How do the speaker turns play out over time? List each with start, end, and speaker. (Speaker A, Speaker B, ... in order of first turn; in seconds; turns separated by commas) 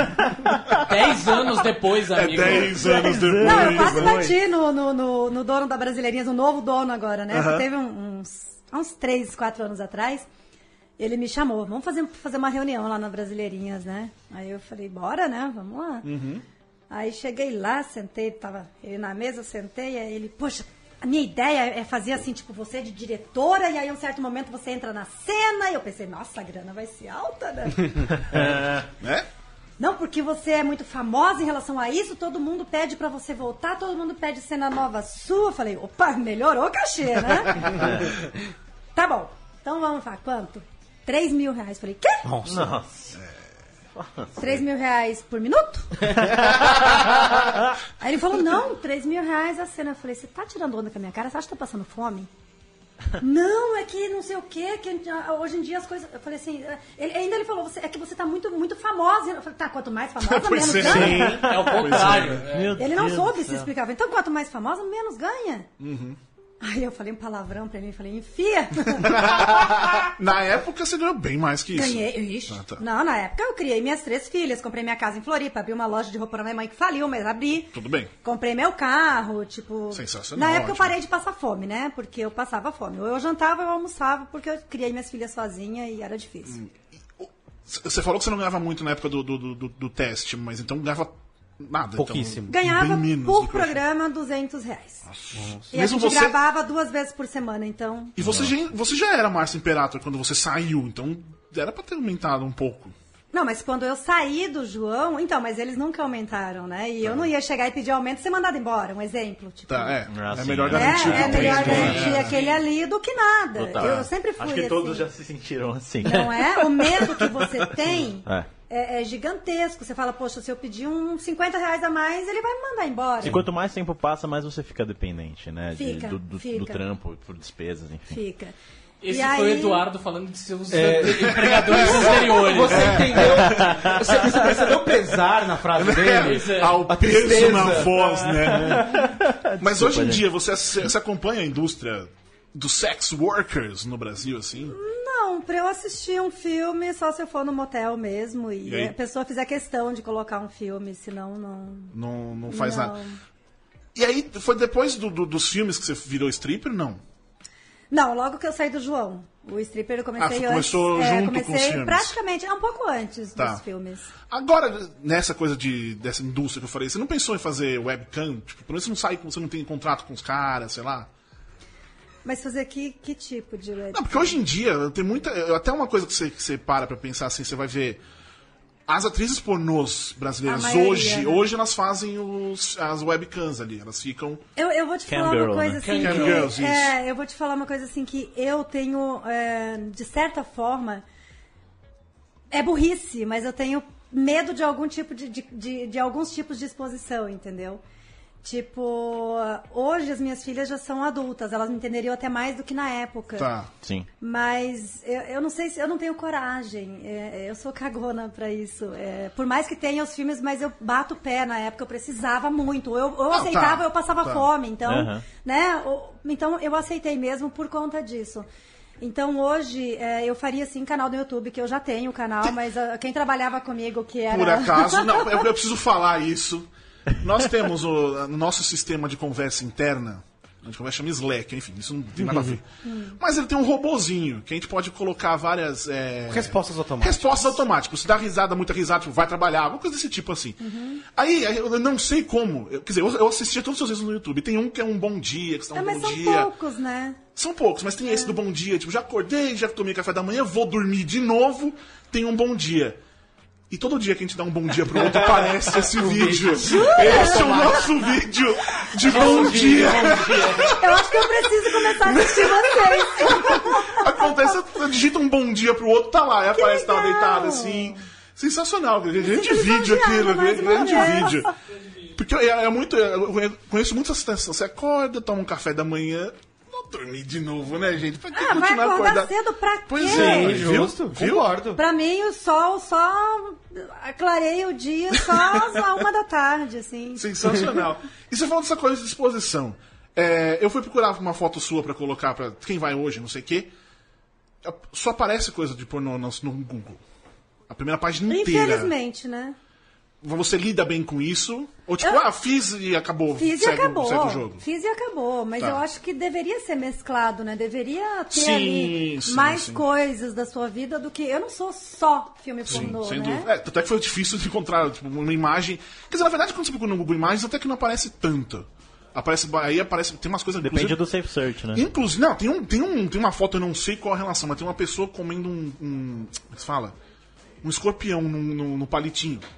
Speaker A: 0.3-0.8, Speaker B: 0.7-2.9, Speaker C: 2.1-4.3, Speaker A: 2.7-4.3, Speaker D: 2.8-10.2, Speaker C: 7.3-7.7, Speaker D: 11.0-16.1, Speaker C: 16.0-16.4, Speaker D: 16.9-28.1, Speaker A: 28.3-28.9, Speaker C: 29.0-29.2, Speaker D: 29.8-38.0, Speaker D: 38.9-42.2, Speaker E: 42.2-42.7, Speaker A: 42.4-43.2, Speaker A: 43.9-44.6, Speaker D: 44.4-46.1, Speaker D: 48.0-52.3, Speaker D: 53.2-61.3, Speaker C: 60.2-62.4, Speaker A: 60.8-63.7, Speaker E: 61.0-61.4, Speaker B: 61.2-62.8, Speaker D: 62.8-65.7, Speaker C: 65.8-66.2, Speaker D: 66.6-69.2, Speaker C: 68.9-72.8, Speaker D: 71.7-86.6, Speaker C: 77.7-78.1, Speaker C: 79.9-81.0, Speaker C: 86.5-93.8, Speaker E: 91.9-92.5, Speaker D: 92.5-95.0, Speaker C: 95.1-96.4, Speaker E: 95.3-95.7, Speaker D: 95.7-98.1, Speaker C: 98.2-102.9, Speaker A: 98.2-98.5, Speaker D: 103.3-110.0, Speaker C: 109.7-112.3, Speaker A: 110.1-112.2, Speaker D: 110.7-115.1, Speaker E: 111.2-112.2, Speaker B: 112.0-112.6, Speaker A: 113.5-117.3, Speaker C: 113.8-114.0, Speaker D: 116.0-123.4, Speaker A: 118.2-118.5, Speaker A: 123.2-128.2, Speaker D: 125.7-126.8, Speaker D: 128.1-128.5, Speaker B: 129.0-133.3, Speaker D: 129.1-129.8, Speaker E: 130.7-138.8, Speaker C: 131.1-134.7, Speaker A: 133.4-133.9, Speaker C: 135.7-139.0, Speaker B: 136.1-136.8, Speaker A: 138.5-140.2, Speaker C: 139.6-144.7, Speaker D: 144.6-151.9, Speaker C: 148.7-148.9, Speaker C: 151.9-152.9, Speaker D: 152.5-153.2, Speaker C: 153.9-157.0, Speaker D: 157.9-164.1, Speaker C: 160.2-162.1, Speaker C: 163.4-163.6, Speaker C: 164.3-171.1, Speaker D: 172.2-174.4, Speaker C: 173.9-178.0, Speaker C: 178.9-184.4, Speaker D: 180.4-181.4, Speaker D: 184.6-191.0, Speaker A: 185.1-185.9, Speaker B: 185.8-186.5, Speaker C: 186.0-186.9, Speaker D: 192.5-197.8, Speaker D: 198.4-203.5, Speaker C: 203.4-203.7, Speaker A: 203.8-204.1, Speaker D: 204.2-218.4, Speaker C: 213.3-214.4, Speaker A: 214.8-215.2, Speaker D: 219.0-225.4, Speaker C: 224.3-232.6, Speaker D: 232.8-233.2, Speaker C: 233.2-240.6, Speaker E: 236.3-237.6, Speaker D: 240.6-241.0, Speaker C: 241.1-246.5, Speaker D: 245.7-247.2, Speaker C: 247.3-253.0, Speaker D: 248.1-248.4, Speaker C: 253.7-271.5, Speaker E: 255.0-258.0, Speaker D: 256.6-257.7, Speaker B: 259.0-260.8, Speaker E: 259.0-260.6, Speaker D: 260.6-264.3, Speaker D: 266.5-268.0, Speaker D: 269.2-271.5, Speaker C: 272.1-279.3, Speaker D: 278.3-280.6, Speaker C: 279.9-281.6, Speaker E: 280.0-281.8, Speaker D: 281.7-287.2, Speaker C: 287.1-293.7, Speaker C: 294.6-297.0, Speaker C: 297.7-298.9, Speaker D: 298.3-299.6, Speaker C: 300.2-304.6, Speaker D: 303.3-313.5, Speaker C: 308.3-309.8, Speaker C: 312.6-321.0, Speaker A: 320.6-321.9, Speaker C: 321.7-326.9, Speaker C: 327.6-329.4